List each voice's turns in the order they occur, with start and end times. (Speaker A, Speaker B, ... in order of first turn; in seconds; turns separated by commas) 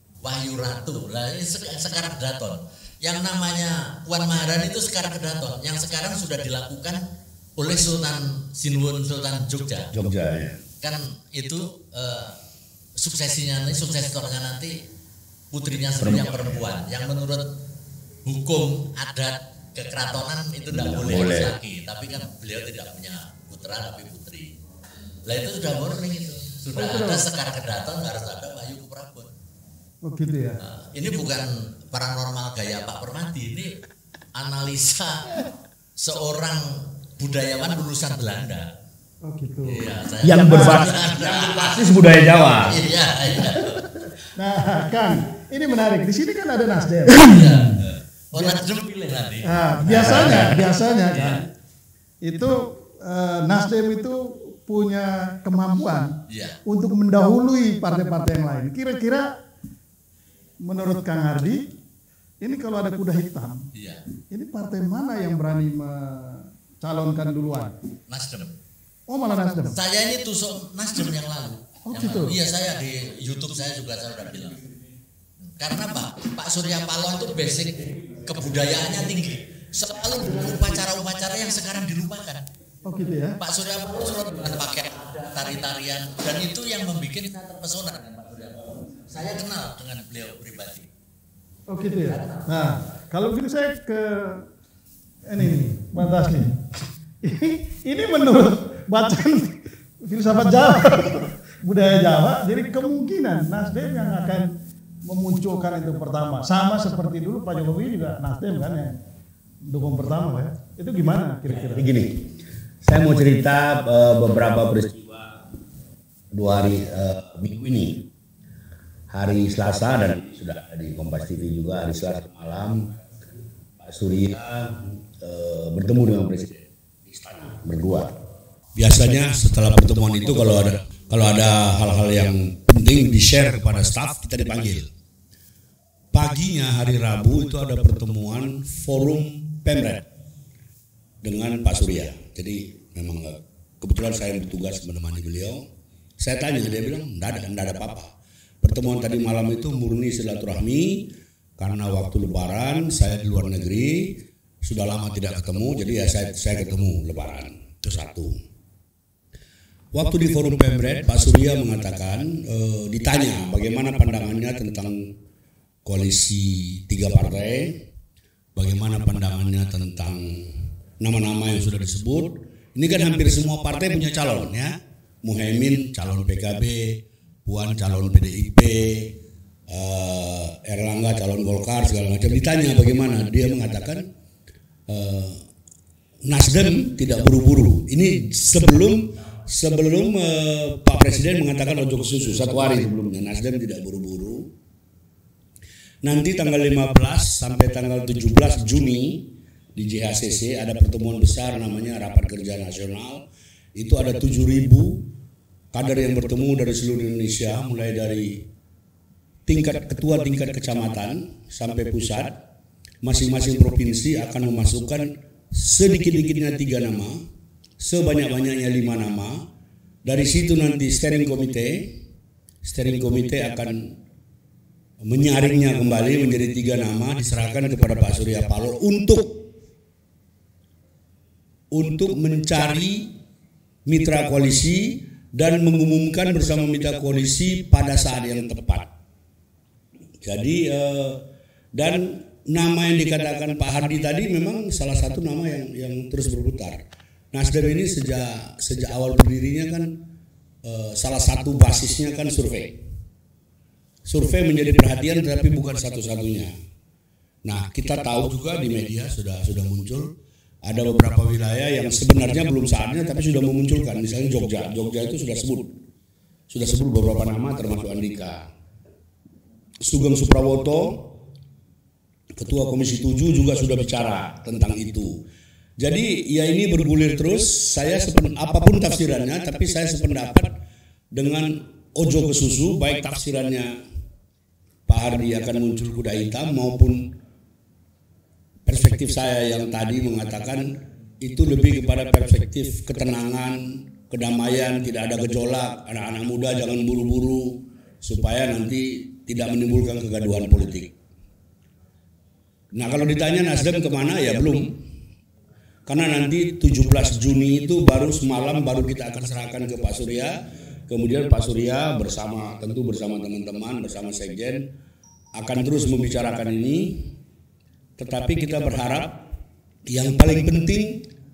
Speaker A: 0.2-7.0, Speaker A: 7.6-9.9, Speaker B: 9.9-10.6, Speaker A: 10.8-12.4, Speaker A: 13.0-14.8, Speaker A: 15.5-17.6, Speaker B: 16.0-16.4, Speaker A: 18.2-24.5, Speaker B: 20.7-21.6, Speaker A: 25.2-29.3, Speaker C: 26.7-27.2, Speaker C: 30.0-30.6, Speaker A: 30.6-33.8, Speaker A: 34.4-38.7, Speaker C: 39.2-39.9, Speaker A: 39.7-42.0, Speaker B: 40.2-42.8, Speaker C: 40.4-40.8, Speaker A: 42.6-43.9, Speaker C: 44.3-47.9, Speaker A: 47.2-50.6, Speaker C: 49.4-51.5, Speaker B: 49.9-50.6, Speaker C: 52.2-59.4, Speaker A: 56.3-56.6, Speaker C: 60.6-61.6, Speaker C: 62.4-63.7, Speaker A: 63.7-64.0, Speaker C: 64.3-67.8, Speaker A: 68.1-68.6, Speaker C: 69.1-69.8, Speaker A: 69.7-74.6, Speaker C: 71.8-72.3, Speaker A: 75.5-82.5, Speaker C: 82.9-83.4, Speaker A: 83.4-90.9, Speaker C: 91.7-94.5, Speaker A: 92.1-92.5, Speaker C: 95.3-96.6, Speaker C: 97.2-109.0, Speaker C: 109.7-111.9, Speaker B: 111.5-112.3, Speaker B: 112.8-115.4, Speaker B: 116.3-118.1, Speaker B: 119.1-122.9, Speaker B: 123.8-128.2, Speaker B: 128.8-134.9, Speaker B: 136.1-140.1, Speaker B: 141.2-145.7, Speaker B: 146.2-158.4, Speaker B: 159.9-165.1, Speaker B: 165.8-167.8, Speaker B: 168.6-179.2, Speaker B: 179.7-184.1, Speaker B: 184.9-185.5, Speaker B: 186.3-194.4, Speaker B: 196.0-203.2, Speaker B: 203.8-205.1, Speaker B: 205.7-208.4, Speaker B: 209.5-212.3, Speaker B: 213.0-217.2, Speaker B: 217.8-219.4, Speaker B: 220.1-222.0, Speaker B: 222.6-223.9, Speaker B: 225.0-229.5, Speaker B: 231.7-233.1, Speaker B: 233.9-238.9, Speaker B: 240.2-241.2, Speaker B: 241.8-249.9, Speaker B: 250.6-252.8, Speaker B: 254.1-256.5, Speaker B: 257.4-265.8, Speaker B: 266.5-268.5, Speaker B: 269.8-271.2, Speaker B: 272.4-275.1, Speaker B: 275.8-280.5, Speaker B: 281.1-283.7, Speaker B: 284.9-287.1, Speaker B: 288.7-300.9, Speaker B: 302.7-304.8, Speaker B: 305.9-310.3, Speaker B: 310.9-314.7, Speaker B: 315.4-317.2, Speaker B: 318.0-319.3, Speaker B: 319.9-321.1